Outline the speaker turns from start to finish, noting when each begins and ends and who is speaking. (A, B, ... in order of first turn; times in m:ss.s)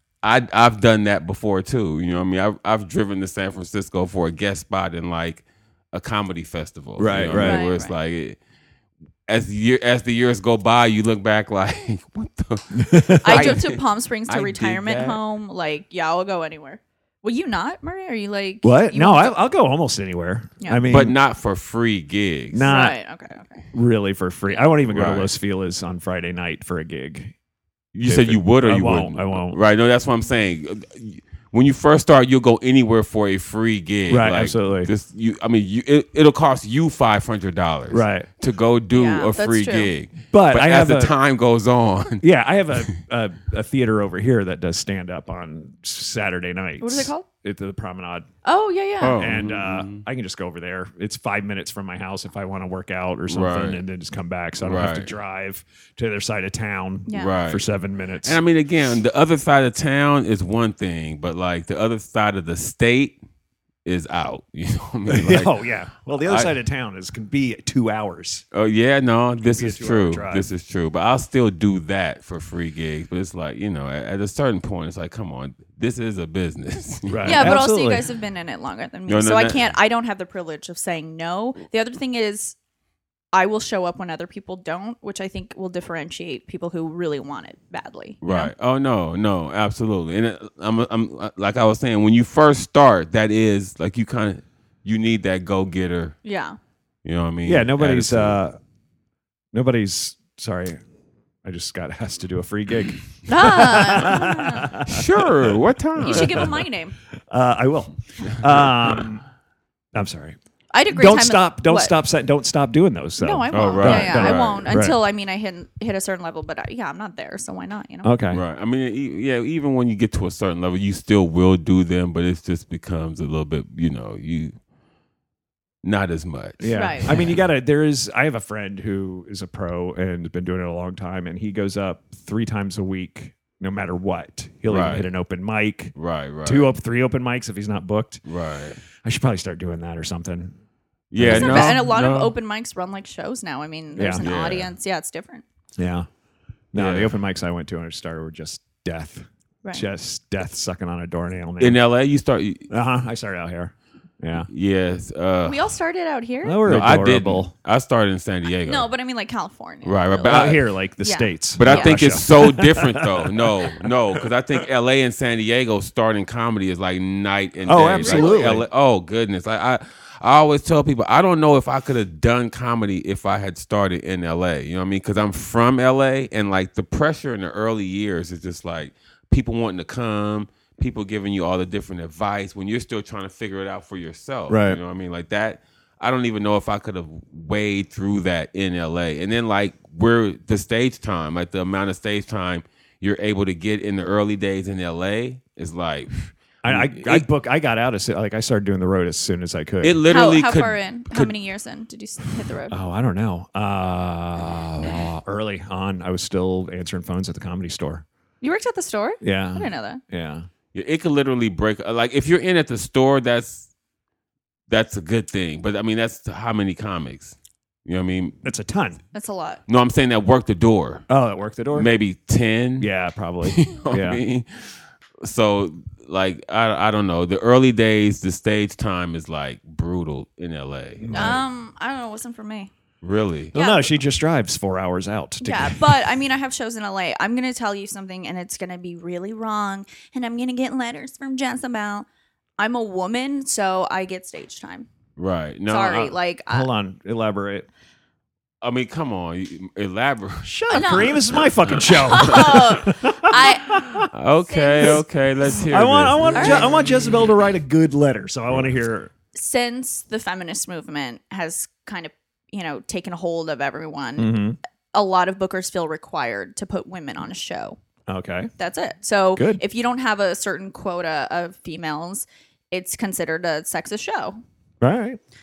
0:00.2-0:08.4 A
0:07.0-0:07.6 B
0:07.3-0:07.9 C
0:09.3-0:15.2 A
0:12.7-0:13.6 B
0:13.2-0:19.3 C
0:18.6-0:21.2 B
0:20.8-0:22.7 A
0:22.5-0:23.0 B
0:22.6-0:23.7 C
0:23.7-0:27.3 B
0:24.9-0:25.3 A
0:27.9-0:42.2 A
0:28.0-0:29.6 B
0:34.1-0:34.9 B
0:37.9-0:38.3 B
0:38.9-0:39.9 C
0:40.3-0:41.1 B
0:42.2-0:48.3 B
0:46.8-0:47.2 C
0:48.4-0:49.2 C
0:49.0-0:50.0 A
0:49.2-0:58.4 B
0:53.3-0:53.8 A
0:54.6-0:55.1 A
0:57.1-0:57.3 C
0:57.1-0:57.6 A
0:58.2-1:03.2 A
1:03.8-1:05.6 A
1:05.1-1:08.4 B
1:06.2-1:06.5 A
1:08.5-1:17.6 A
1:09.5-1:10.5 B
1:17.1-1:18.0 B
1:17.2-1:22.6 C
1:19.1-1:19.7 A
1:23.3-1:28.5 C
1:28.2-1:36.2 A
1:36.2-1:36.6 C
1:37.0-1:38.4 A
1:37.4-1:38.6 B
1:39.5-1:40.8 B
1:41.4-1:46.6 B
1:43.3-1:44.8 C
1:44.8-1:46.6 A
1:46.0-1:46.9 C
1:47.3-1:49.2 B
1:49.9-1:50.4 B
1:50.7-1:51.9 C
1:50.9-1:55.0 B
1:53.2-1:58.1 C
1:53.5-1:54.8 A
1:58.0-1:58.4 B
1:58.3-2:04.5 A
2:05.8-2:07.4 A
2:06.6-2:18.2 B
2:06.7-2:07.1 C
2:14.7-2:15.1 A
2:16.0-2:16.7 A
2:18.2-2:18.8 A
2:19.0-2:20.5 B
2:21.1-2:22.3 A
2:21.2-2:21.9 B
2:21.3-2:25.4 C
2:24.0-2:24.3 B
2:24.2-2:24.7 A
2:25.8-2:26.1 B
2:26.7-2:31.8 B
2:26.7-2:27.1 A
2:31.6-2:32.7 A
2:32.7-2:34.5 B
2:34.5-2:35.6 A
2:35.4-2:36.7 C
2:36.4-2:37.5 B
2:36.6-2:38.9 A
2:38.6-2:40.5 C
2:39.8-2:40.6 A
2:40.2-2:44.3 B
2:41.0-2:42.0 C
2:41.6-3:17.2 A
2:47.6-2:48.7 B
2:48.0-2:48.4 C
3:04.5-3:04.8 B
3:16.6-3:20.0 B
3:19.8-3:21.3 A
3:20.1-3:22.7 C
3:22.7-3:28.0 B
3:28.4-3:30.0 C
3:29.2-3:30.5 B
3:30.7-3:33.7 A
3:34.7-3:38.4 A
3:38.4-3:39.0 B
3:39.1-3:39.6 C
3:39.7-3:41.1 A
3:41.1-3:41.9 B
3:41.7-3:42.9 A
3:42.8-3:44.2 B
3:43.4-3:51.4 A
3:51.0-3:51.4 B
3:51.1-3:52.7 C
3:53.0-3:53.6 A
3:53.5-3:56.0 B
3:53.5-3:53.9 C
3:55.4-4:02.0 C
4:02.6-4:04.9 C
4:05.2-4:06.1 A
4:05.7-4:06.7 C
4:06.5-4:07.7 B
4:08.6-4:12.7 A
4:10.4-4:14.1 B
4:10.7-4:11.2 C
4:12.0-4:13.8 C
4:14.1-4:17.3 A
4:14.5-4:15.0 C
4:15.6-4:19.1 B
4:16.3-4:16.7 C
4:19.3-4:24.4 C
4:24.2-4:24.6 B
4:24.9-4:27.8 C
4:28.1-4:28.5 B
4:28.6-4:34.4 C
4:29.3-4:29.6 B
4:34.8-4:35.2 B